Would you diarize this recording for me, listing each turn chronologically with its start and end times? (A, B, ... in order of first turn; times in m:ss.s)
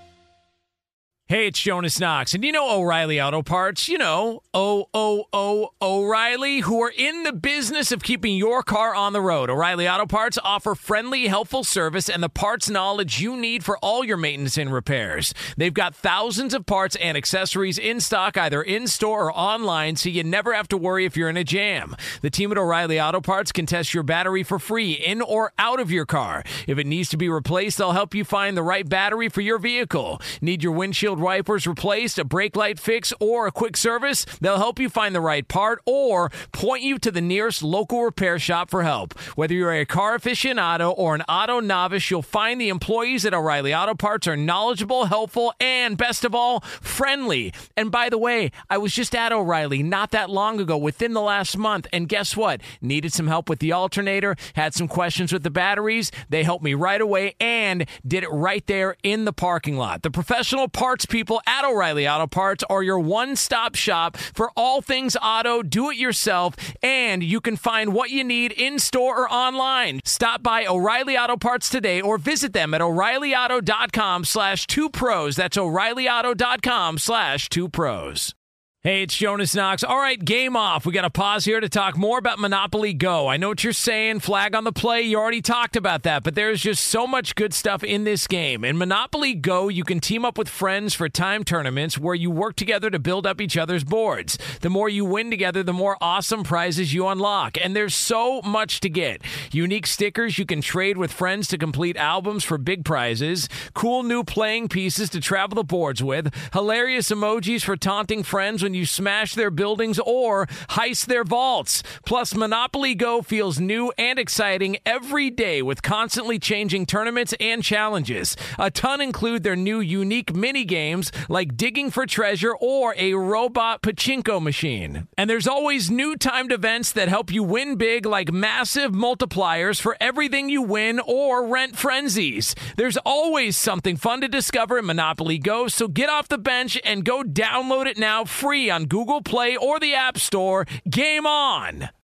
0:01.3-1:18.3 A
1:18.8-2:21.9 A